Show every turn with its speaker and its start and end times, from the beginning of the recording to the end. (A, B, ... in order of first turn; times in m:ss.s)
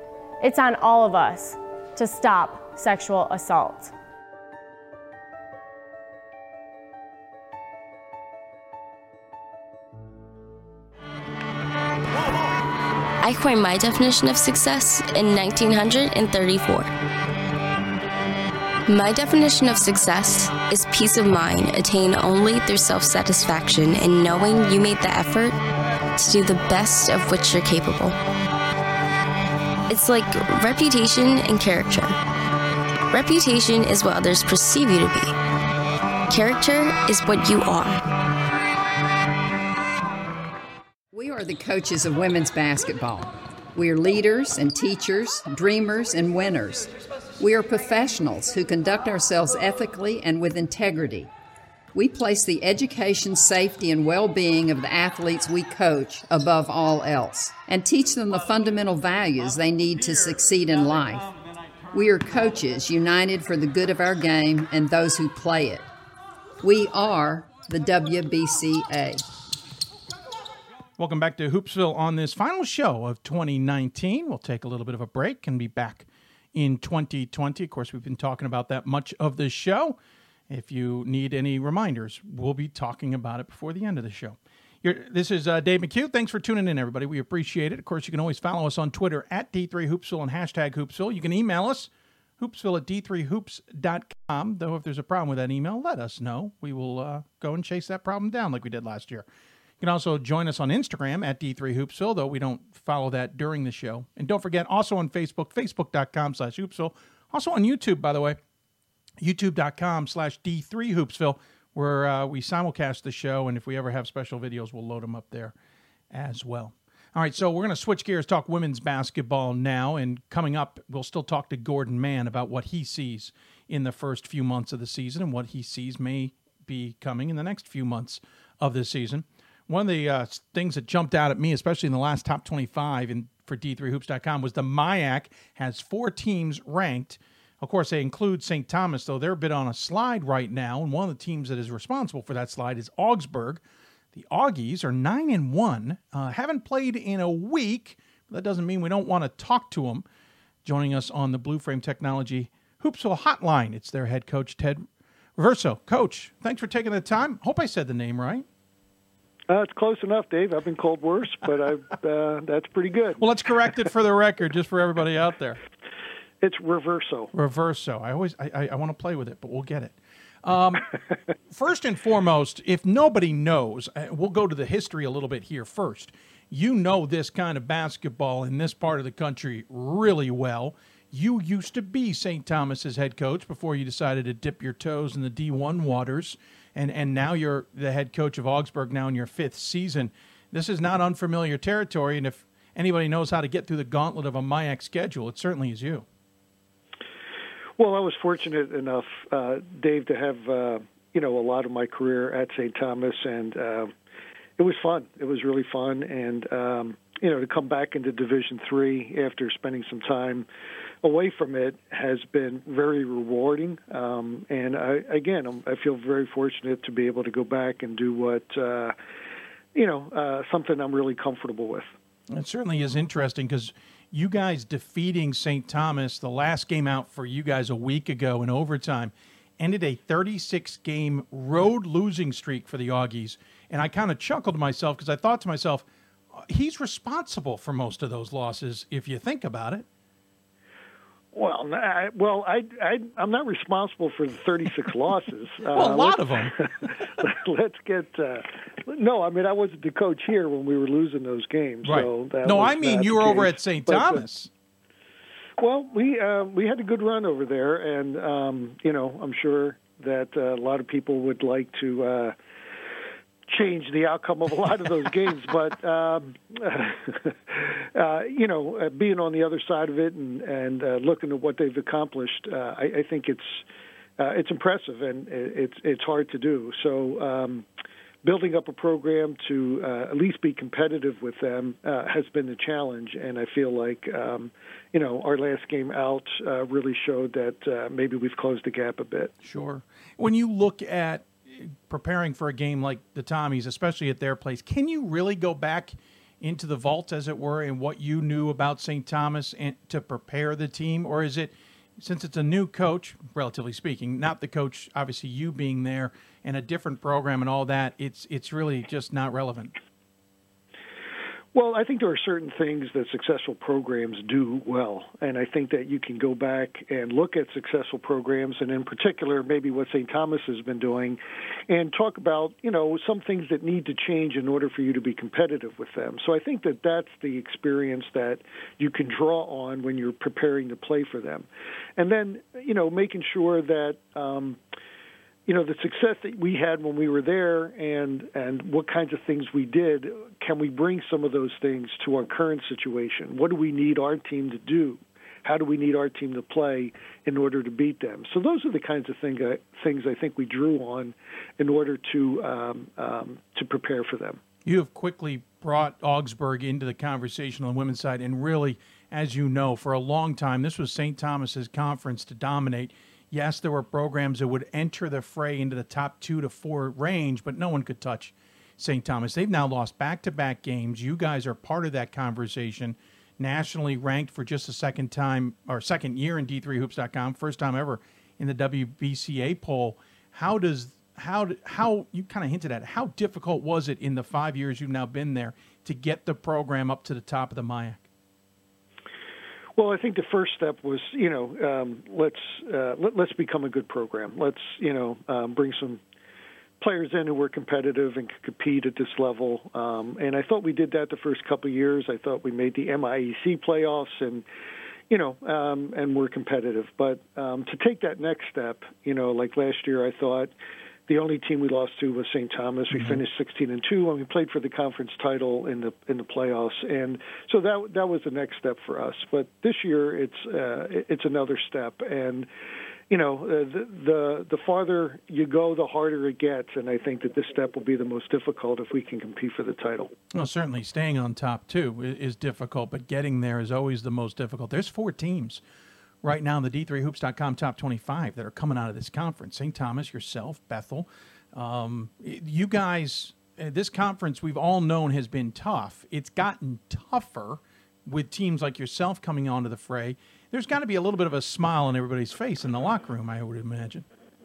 0:00.4-0:03.9 A
0:13.2-0:16.9 B
0:19.6-0:20.0 B
0:20.8-0:21.1 B
0:22.3-0:23.4 B
0:26.2-0:26.6 B
0:29.9-0:32.1 B
0:33.1-0:35.3 B
0:36.3-0:38.0 B
0:41.1-0:51.3 C
0:51.9-1:01.3 C
1:01.9-1:05.9 C
1:06.6-1:09.2 C
1:11.0-1:20.0 D
1:20.5-1:31.9 D
1:32.4-1:39.2 D
1:39.8-1:48.4 D
1:49.2-1:55.5 D
1:56.1-2:23.6 D
2:24.1-2:30.0 D
2:30.6-2:34.8 D
2:35.4-2:38.4 D
2:39.5-2:43.2 E
2:43.2-2:45.6 D
2:46.4-2:47.3 E
2:47.3-2:50.9 D
2:51.5-3:16.0 D
3:17.8-3:23.9 E
3:24.6-3:30.4 E
3:31.0-3:38.9 E
3:39.7-3:41.9 E
3:42.3-3:55.8 D
3:56.5-3:59.8 D
4:01.3-4:06.2 E
4:05.7-4:06.6 D
4:07.2-4:14.2 E
4:11.8-4:14.5 D
4:15.6-4:22.3 E
4:23.5-4:33.6 E
4:34.2-4:37.7 E
4:38.2-4:49.3 E
4:49.4-5:09.7 D
5:11.5-5:34.6 E
5:35.5-5:54.4 E
5:54.6-6:28.0 D
6:29.8-6:36.0 E
6:36.8-6:44.4 E
6:45.1-6:50.5 E
6:51.1-7:02.5 E
6:52.9-6:53.2 D
7:03.1-7:10.1 E
7:10.3-7:15.6 D
7:16.2-7:34.0 D